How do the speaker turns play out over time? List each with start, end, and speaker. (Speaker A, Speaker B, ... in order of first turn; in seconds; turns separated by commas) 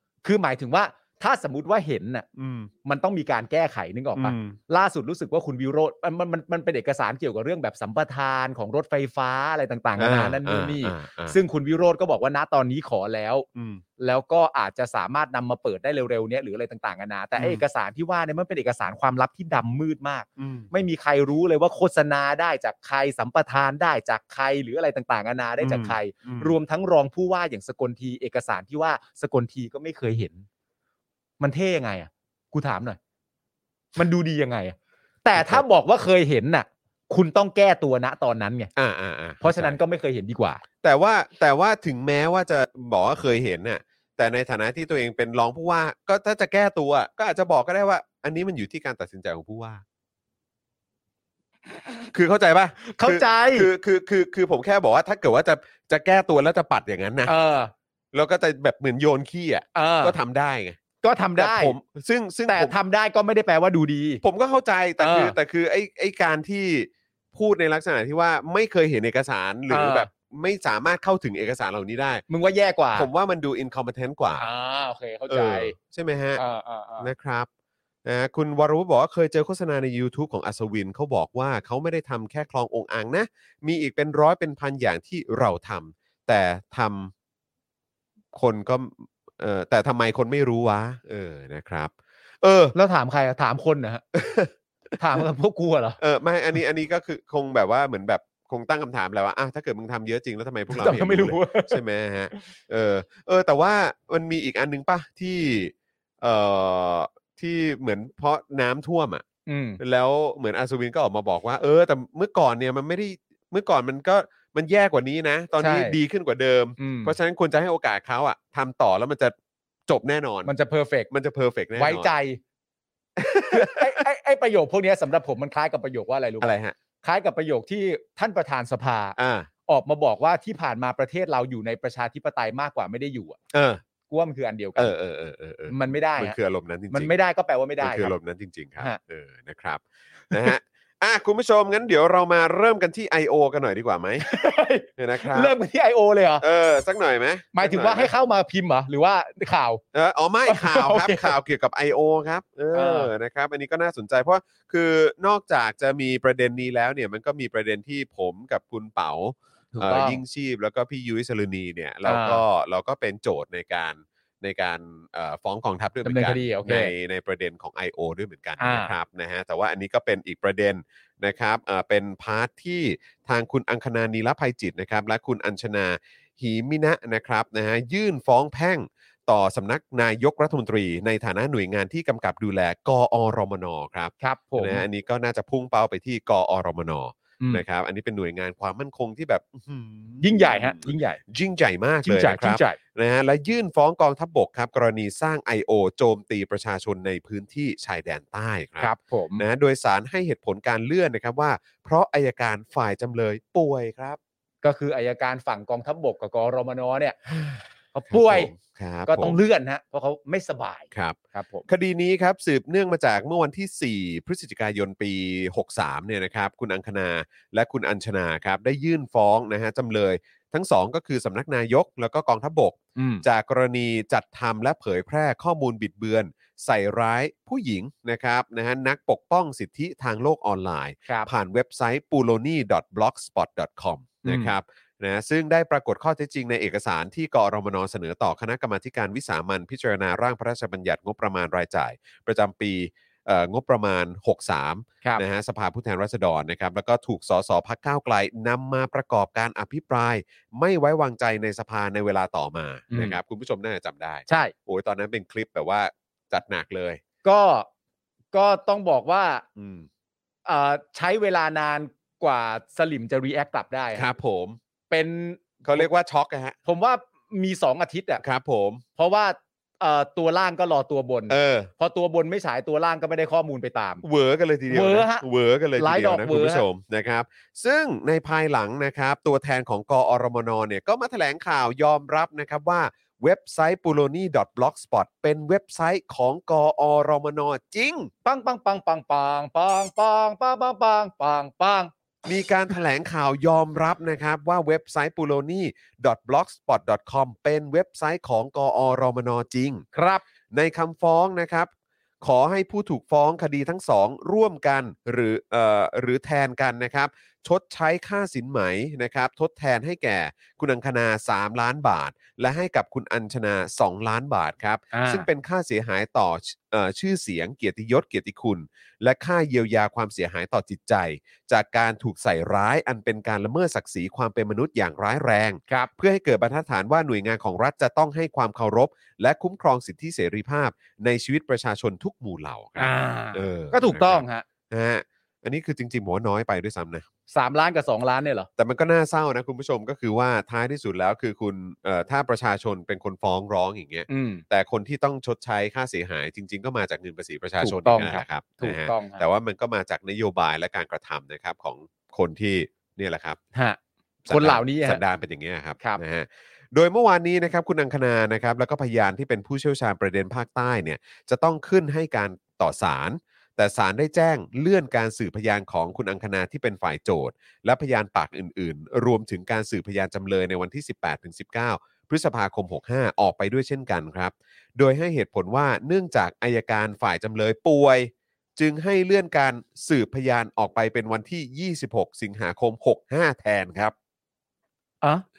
Speaker A: 0.2-2.3, Speaker B: 2.4-2.7, Speaker A: 2.9-13.5, Speaker B: 4.2-4.6, Speaker B: 10.0-11.4, Speaker B: 13.6-13.8, Speaker A: 14.0-30.4, Speaker B: 17.4-17.6, Speaker B: 20.4-20.7, Speaker B: 25.6-26.5, Speaker A: 31.4-33.0, Speaker A: 34.0-38.7, Speaker B: 35.4-35.6, Speaker B: 38.8-39.8, Speaker A: 39.4-40.6, Speaker B: 40.8-49.8, Speaker B: 52.1-57.3, Speaker A: 52.8-53.7, Speaker A: 57.3-57.7, Speaker B: 58.1-60.8, Speaker A: 59.7-60.2, Speaker A: 61.0-61.7, Speaker B: 61.4-62.7, Speaker A: 62.5-64.2, Speaker B: 64.2-72.2, Speaker A: 65.0-65.3, Speaker A: 69.7-70.1, Speaker A: 72.3-73.1, Speaker B: 72.9-74.5, Speaker A: 74.4-75.7, Speaker B: 75.3-76.4, Speaker A: 76.4-77.1, Speaker B: 77.0-77.5, Speaker B: 78.0-87.1, Speaker B: 88.3-92.7, Speaker A: 92.7-94.0, Speaker B: 94.1-94.5, Speaker A: 95.0-96.0, Speaker B: 96.0-109.2, Speaker A: 100.7-101.8, Speaker A: 109.5-109.8, Speaker B: 109.8-119.3, Speaker A: 115.6-116.0, Speaker A: 116.8-117.1, Speaker B: 119.9-120.5, Speaker A: 120.5-121.1, Speaker B: 121.1-122.1, Speaker A: 121.8-122.4, Speaker B: 123.2-124.0, Speaker A: 123.5-129.2, Speaker B: 126.4-126.8, Speaker B: 129.2-129.5, Speaker A: 129.7-133.4, Speaker B: 133.5-133.8, Speaker A: 134.1-134.9, Speaker B: 134.8-137.2, Speaker A: 135.7-136.4, Speaker A: 136.9-138.1, Speaker B: 137.8-144.3, Speaker A: 144.2-146.4, Speaker B: 145.0-145.5, Speaker B: 146.4-148.1, Speaker A: 147.6-149.8, Speaker B: 149.9-204.2, Speaker A: 150.4-151.3, Speaker A: 152.7-153.1, Speaker A: 159.7-160.2, Speaker A: 162.1-162.4, Speaker A: 166.1-166.9, Speaker A: 168.6-168.9, Speaker A: 184.2-184.8, Speaker A: 190.2-191.2, Speaker A: 192.0-192.8, Speaker A: 198.8-199.4, Speaker A: 204.6-207.2, Speaker B: 207.3-209.4, Speaker A: 207.9-208.5, Speaker A: 209.1-211.7, Speaker B: 210.9-257.0, Speaker A: 222.9-223.2, Speaker A: 234.2-234.6, Speaker A: 252.9-253.2, Speaker A: 254.3-254.5, Speaker A: 257.2-257.7, Speaker A: 258.3-259.4, Speaker B: 259.6-259.9, Speaker A: 260.4-264.1, Speaker B: 263.9-264.6, Speaker A: 264.9-265.9, Speaker B: 265.6-266.6, Speaker A: 266.7-268.2, Speaker B: 268.2-268.8, Speaker A: 268.9-274.0, Speaker B: 271.3-271.7, Speaker B: 274.0-288.1, Speaker A: 274.7-275.2, Speaker A: 275.8-276.6, Speaker A: 288.2-291.9, Speaker B: 292.2-299.9, Speaker A: 299.9-300.2, Speaker B: 300.5-337.1, Speaker A: 314.9-315.3, Speaker A: 332.8-334.4, Speaker A: 337.3-338.5, Speaker B: 338.6-353.4, Speaker A: 344.1-344.4, Speaker A: 347.6-349.2, Speaker B: 354.3-383.9, Speaker A: 354.3-355.0